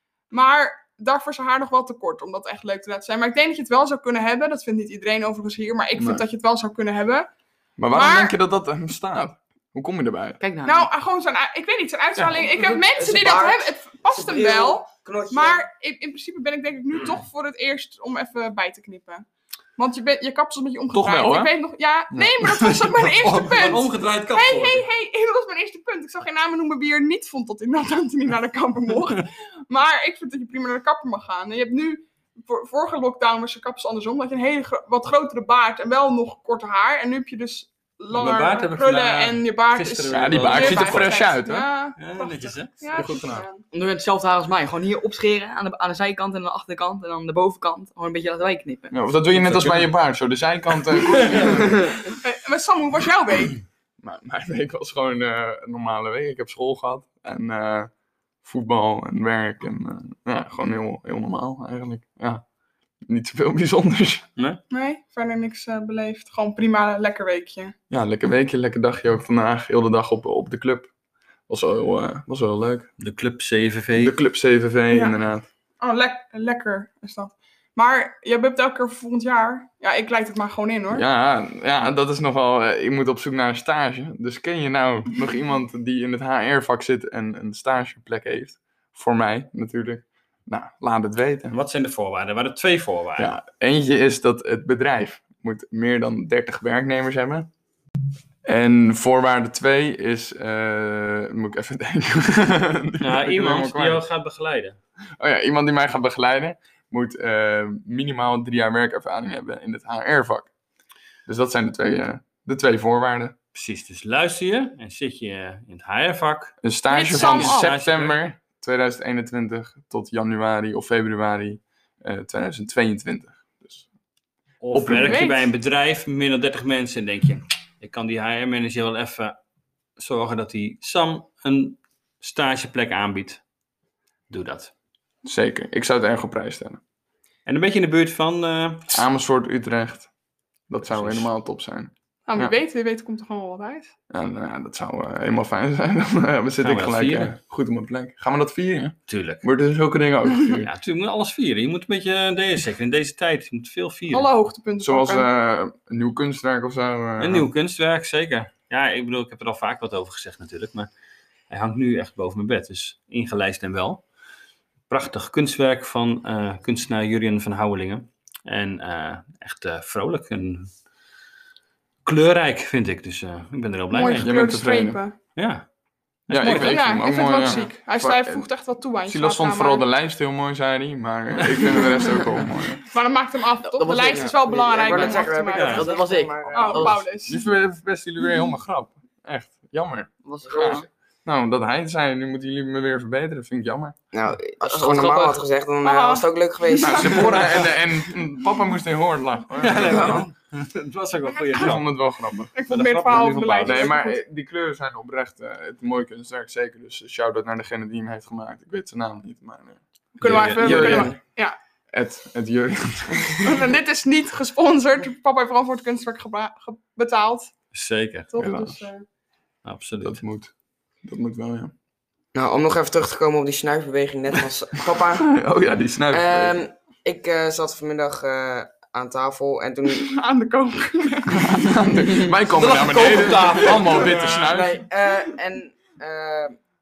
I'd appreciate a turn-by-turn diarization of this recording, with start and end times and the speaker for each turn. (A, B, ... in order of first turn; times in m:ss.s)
0:00.3-0:07.3 A
0:06.0-0:06.2 B
0:07.8-0:10.4 B
0:07.9-0:08.4 A
0:10.4-0:10.9 C
0:10.6-0:43.6 A
0:12.7-0:15.6 D
0:20.9-0:21.5 B
0:22.4-0:24.9 E
0:38.1-0:41.3 E
0:40.1-0:41.7 B
0:42.0-0:43.2 E
0:42.9-0:43.5 B
0:43.7-0:49.0 C
0:48.9-0:51.9 B
0:49.3-0:49.9 E
0:51.0-0:51.6 E
0:52.2-0:53.6 A
0:54.0-0:57.9 B
0:58.4-1:02.4 B
1:03.1-1:04.3 B
1:04.7-1:07.8 A
1:07.9-1:10.9 B
1:11.5-1:12.9 B
1:13.0-1:14.2 E
1:14.0-1:15.5 B
1:14.9-1:15.2 A
1:15.8-1:21.0 A
1:20.9-1:31.5 B
1:31.5-1:33.3 E
1:33.2-1:37.5 B
1:38.4-1:44.0 B
1:43.0-1:44.8 E
1:45.2-1:50.5 B
1:51.3-1:53.4 B
1:53.5-1:58.2 E
1:56.6-2:03.9 B
1:56.9-1:57.7 A
2:04.6-2:09.4 E
2:04.7-2:05.2 B
2:04.9-2:05.5 A
2:10.0-2:13.4 E
2:14.3-2:14.7 E
2:15.2-2:16.8 B
2:17.5-2:19.0 E
2:18.9-2:20.1 B
2:20.7-2:22.5 B
2:20.8-2:21.3 E
2:22.3-2:23.9 A
2:24.1-2:30.7 B
2:26.6-2:27.4 E
2:29.1-2:29.4 E
2:30.6-2:34.3 E
2:34.1-2:35.3 A
2:34.8-2:37.5 B
2:37.2-2:40.9 E
2:41.5-2:44.0 E
2:44.9-2:50.8 E
2:52.0-2:54.6 E
2:53.9-2:55.2 A
2:54.1-2:55.0 B
2:55.4-2:55.7 E
2:56.3-2:57.7 E
2:56.3-2:58.5 B
2:56.4-2:59.9 A
2:59.1-3:02.8 B
3:02.8-3:06.0 A
3:03.6-3:07.0 C
3:04.1-3:07.0 D
3:05.5-3:05.9 E
3:06.5-3:07.5 A
3:07.3-3:14.0 B
3:10.2-3:10.9 C
3:10.5-3:10.8 D
3:14.1-3:17.5 D
3:14.6-3:15.4 C
3:15.8-3:17.3 A
3:16.8-3:20.3 B
3:19.6-3:21.9 E
3:21.3-3:21.8 A
3:21.6-3:22.5 B
3:22.5-3:24.2 A
3:22.7-3:24.0 E
3:23.6-3:31.2 B
3:30.2-3:31.6 A
3:30.2-3:31.1 E
3:30.2-3:31.2 D
3:31.9-3:33.5 B
3:33.4-3:37.5 A
3:37.7-3:38.3 E
3:38.3-3:39.0 A
3:38.4-3:38.8 B
3:39.6-3:40.2 E
3:40.0-3:40.5 B
3:41.0-3:41.7 B
3:42.3-3:45.4 D
3:45.2-3:46.6 B
3:46.1-3:50.1 D
3:49.9-3:51.8 A
3:51.4-3:54.8 B
3:52.5-3:54.6 E
3:53.6-3:54.1 A
3:54.4-3:56.6 D